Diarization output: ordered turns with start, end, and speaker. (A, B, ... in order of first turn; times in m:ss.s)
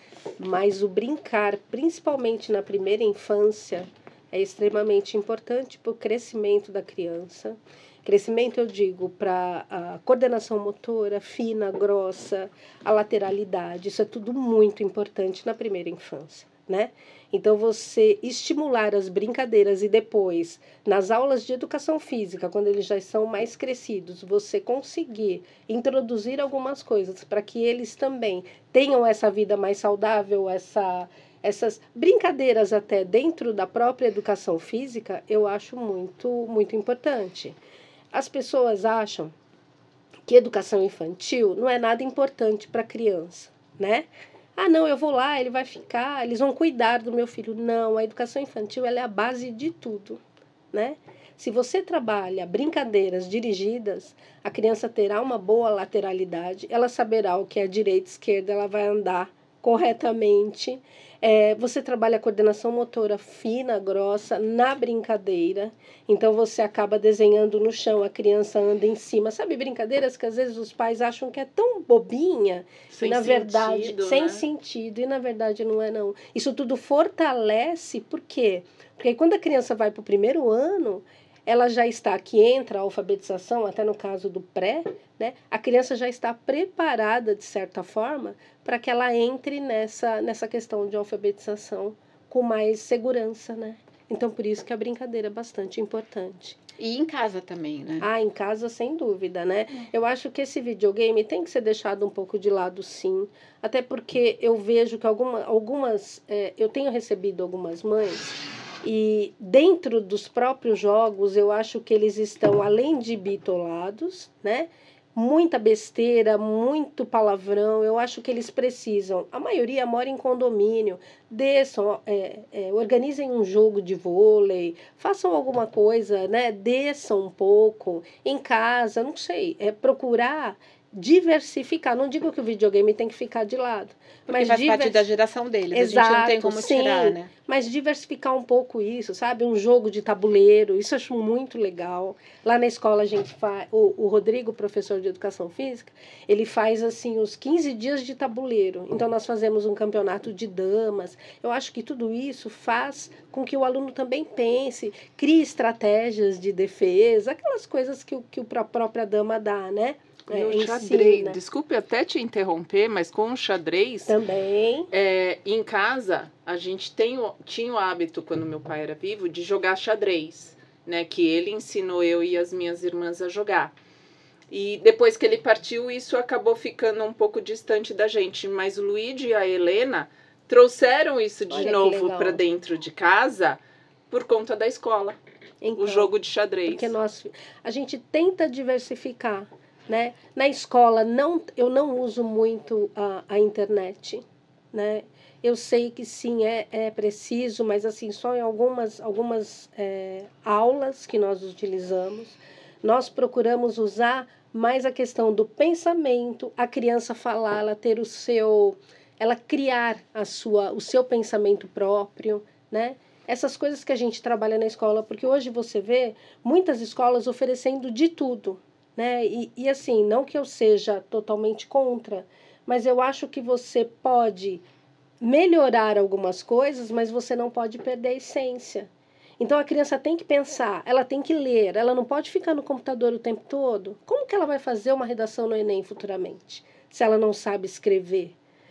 0:00.4-0:37.6 A
0:38.1-0:39.3 A
0:40.3-0:50.2 A
0:50.7-1:36.6 A
1:12.9-1:14.4 B
1:36.8-1:38.1 C
1:38.0-2:15.0 A
2:14.3-2:17.3 C
2:15.7-2:41.4 A
2:40.3-2:44.2 B
2:44.0-2:44.9 A
2:44.9-2:53.7 B
2:54.5-3:05.2 B
3:01.5-3:02.4 A
3:05.6-3:06.1 A
3:05.8-3:06.9 B
3:06.7-3:44.6 A
3:45.2-3:58.4 A